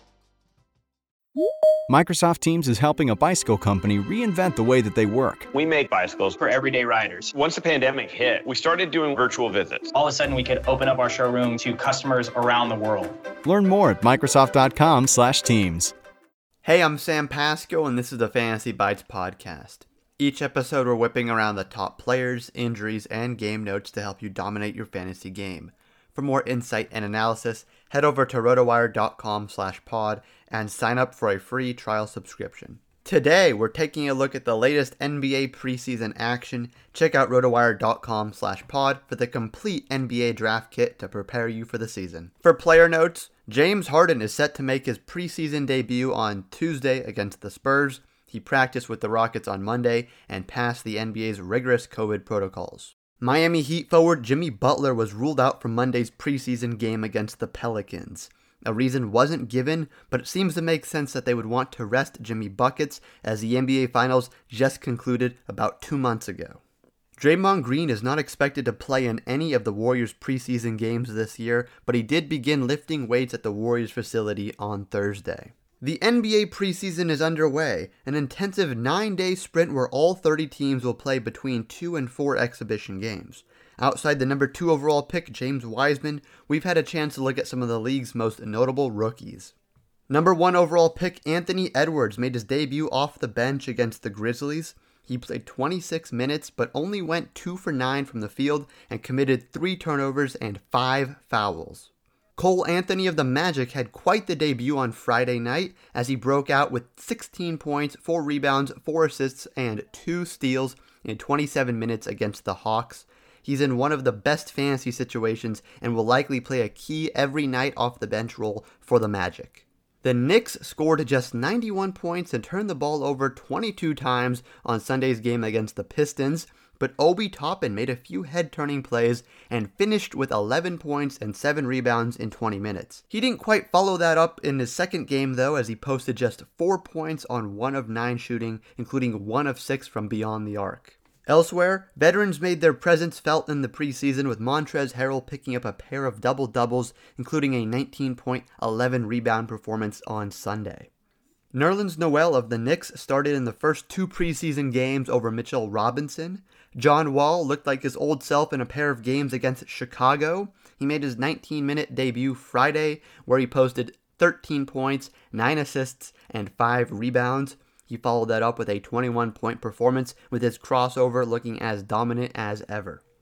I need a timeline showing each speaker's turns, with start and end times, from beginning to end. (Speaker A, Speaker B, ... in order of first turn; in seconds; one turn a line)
Speaker A: 1.9-5.5
Speaker B: 5.5-6.5
Speaker C: 6.4-7.3
Speaker B: 7.3-9.9
Speaker C: 9.9-13.2
Speaker A: 13.4-15.9
Speaker D: 16.6-66.6
Speaker D: 67.2-89.5
Speaker D: 90.1-150.9
Speaker D: 151.5-173.0